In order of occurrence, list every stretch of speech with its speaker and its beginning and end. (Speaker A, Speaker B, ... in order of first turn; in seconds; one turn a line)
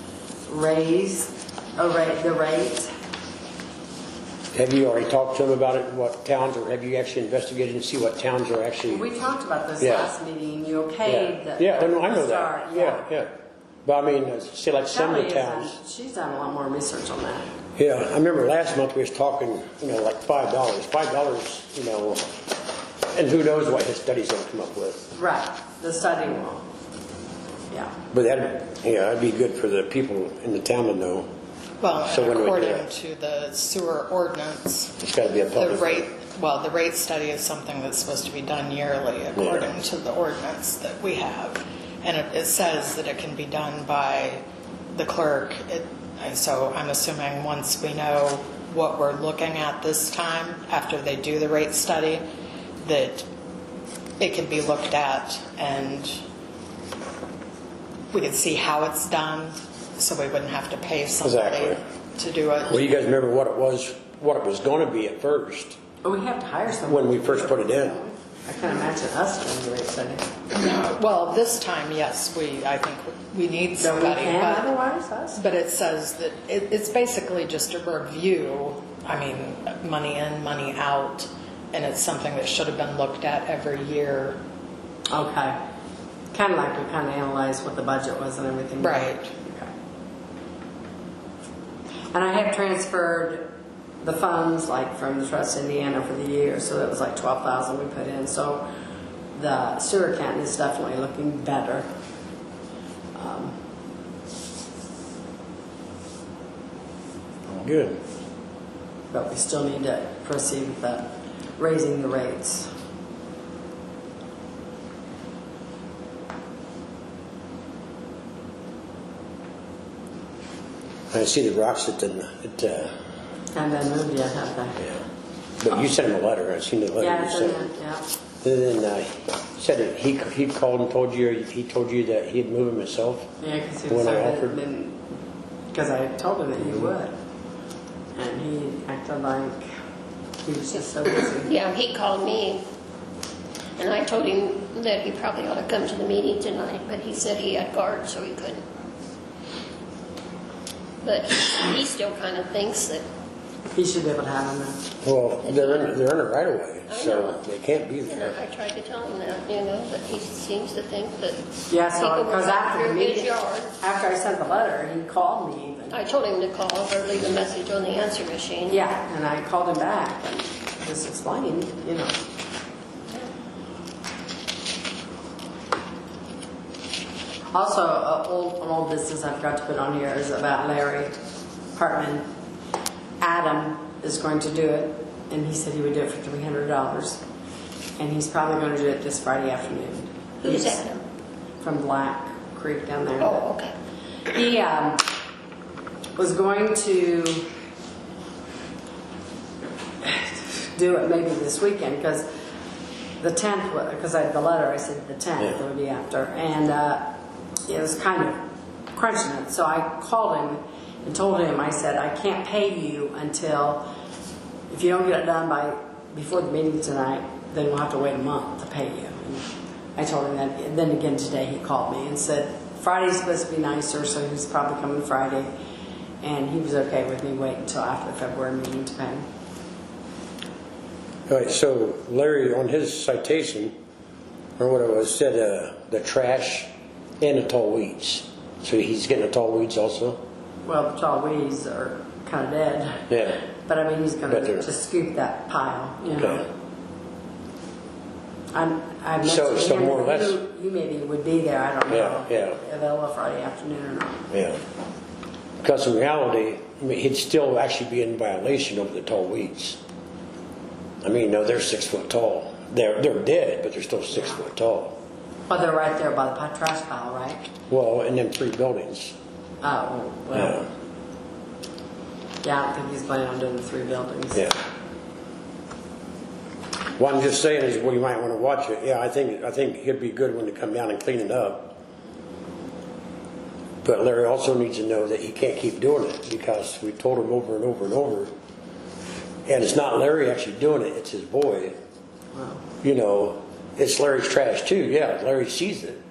Speaker A: 0.5-2.9
Speaker B: 4.5-9.1
Speaker A: 8.9-13.1
Speaker B: 9.8-10.1
Speaker B: 11.0-13.3
Speaker B: 13.8-15.8
Speaker A: 14.9-17.5
Speaker B: 17.8-22.2
Speaker B: 23.1-25.1
Speaker A: 25.1-26.7
Speaker A: 27.7-28.0
Speaker B: 28.1-31.3
Speaker C: 31.8-52.2
Speaker B: 32.0-32.9
Speaker B: 35.0-36.1
Speaker B: 39.4-39.7
Speaker C: 52.8-53.3
Speaker C: 54.2-56.2
Speaker C: 58.1-62.9
Speaker B: 61.2-61.8
Speaker B: 62.6-65.8
Speaker A: 66.0-70.2
Speaker B: 66.8-68.0
Speaker C: 70.5-74.7
Speaker A: 73.8-75.4
Speaker C: 75.3-84.4
Speaker A: 85.1-85.6
Speaker A: 86.3-89.7
Speaker C: 88.8-89.3
Speaker A: 92.1-93.5
Speaker A: 94.0-98.6
Speaker A: 99.3-101.9
Speaker A: 103.1-103.5
Speaker B: 107.5-108.0
Speaker A: 109.1-112.7
Speaker B: 121.1-122.9
Speaker A: 123.5-124.8
Speaker B: 125.6-127.6
Speaker A: 127.0-128.0
Speaker B: 128.4-133.3
Speaker A: 133.4-135.0
Speaker B: 133.9-134.6
Speaker A: 135.7-137.1
Speaker A: 138.2-139.6
Speaker A: 140.4-141.5
Speaker D: 141.4-142.6
Speaker D: 143.8-148.6
Speaker D: 151.0-153.0
Speaker A: 153.7-154.8
Speaker B: 155.0-158.4
Speaker D: 155.4-155.9
Speaker D: 156.9-157.4
Speaker D: 158.1-163.7
Speaker A: 161.7-166.0
Speaker D: 165.9-168.8
Speaker A: 168.7-172.2
Speaker A: 177.5-181.1
Speaker A: 181.7-182.2
Speaker A: 183.2-187.2
Speaker A: 188.0-190.9
Speaker D: 190.4-191.0
Speaker A: 191.6-193.4
Speaker D: 193.2-193.7
Speaker A: 194.3-195.1
Speaker A: 196.2-197.5
Speaker A: 200.0-202.2
Speaker A: 203.2-207.2
Speaker A: 207.7-208.4
Speaker A: 208.9-213.8
Speaker A: 214.7-225.5
Speaker A: 226.2-229.2
Speaker B: 231.3-233.7
Speaker B: 234.6-236.7
Speaker B: 237.2-240.2
Speaker A: 240.7-243.0
Speaker B: 243.1-243.4
Speaker A: 243.6-246.5
Speaker B: 244.3-244.7
Speaker B: 246.2-246.4
Speaker A: 248.5-254.3
Speaker B: 249.2-250.4
Speaker B: 251.9-252.6
Speaker B: 254.3-254.6
Speaker B: 255.6-259.8
Speaker B: 261.0-264.9
Speaker A: 265.5-267.5
Speaker B: 267.7-269.1
Speaker A: 269.6-270.6
Speaker B: 270.3-270.6
Speaker A: 272.4-274.4
Speaker B: 277.0-281.7
Speaker B: 283.8-288.3
Speaker B: 289.5-291.7
Speaker A: 292.3-292.6
Speaker B: 292.8-296.0